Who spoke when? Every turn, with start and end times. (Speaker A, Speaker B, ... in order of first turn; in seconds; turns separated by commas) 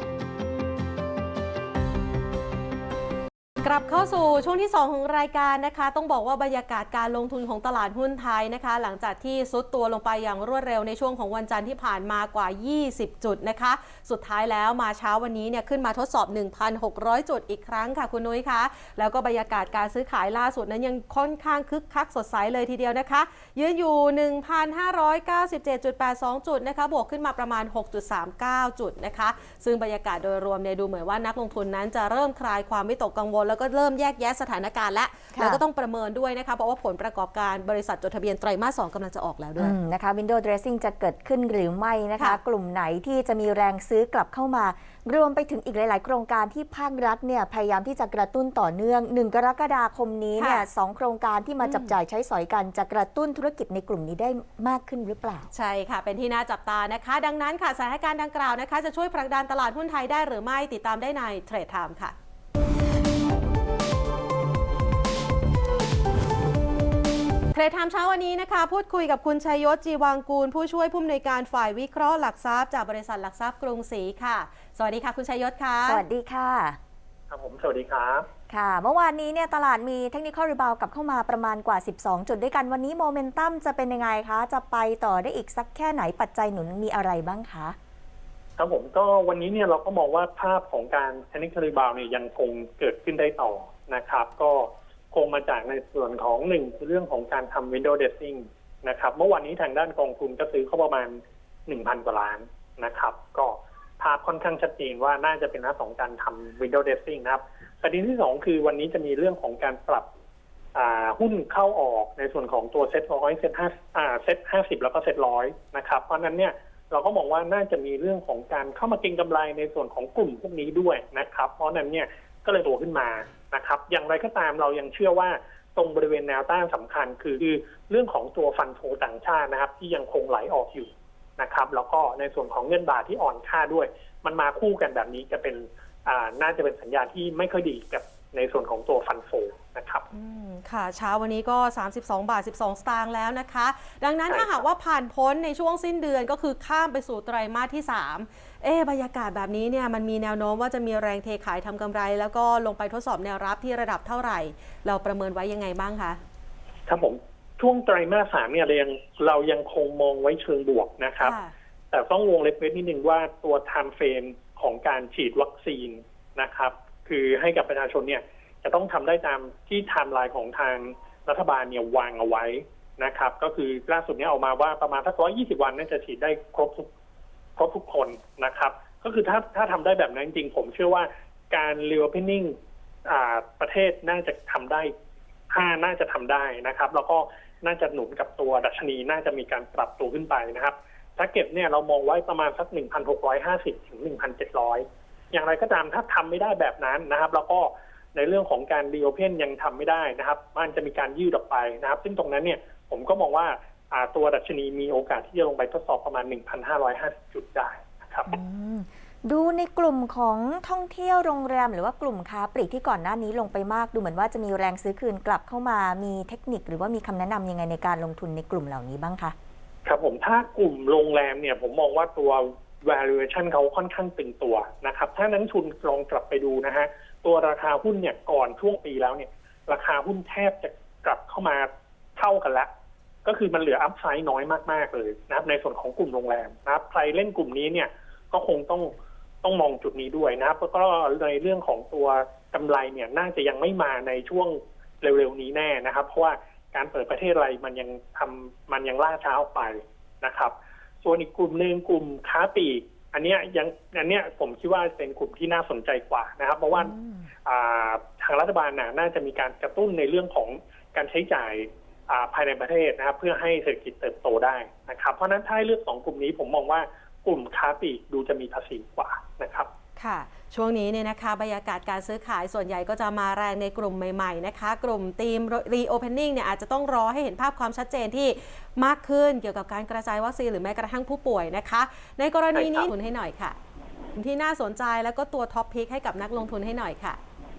Speaker A: 3.6-39.8, Speaker B: 35.3-35.6, Speaker B: 39.6-55.5, Speaker A: 50.4-50.6, Speaker A: 51.6-51.9, Speaker A: 55.5-62.1, Speaker A: 67.5-76.0, Speaker B: 75.8-76.8, Speaker C: 77.3-78.3, Speaker B: 78.5-87.8, Speaker C: 88.6-110.1, Speaker C: 110.8-140.0, Speaker A: 140.1-156.2, Speaker C: 144.3-144.7, Speaker C: 156.9-161.4, Speaker A: 161.2-161.5, Speaker C: 161.9-176.9, Speaker C: 177.6-182.6, Speaker C: 183.1-184.9, Speaker C: 185.5-208.3, Speaker B: 208.3-219.3, Speaker C: 219.8-232.7, Speaker C: 233.2-256.9, Speaker B: 256.7-257.3, Speaker C: 257.5-269.7, Speaker A: 270.0-283.6, Speaker C: 282.6-282.9, Speaker A: 284.1-287.2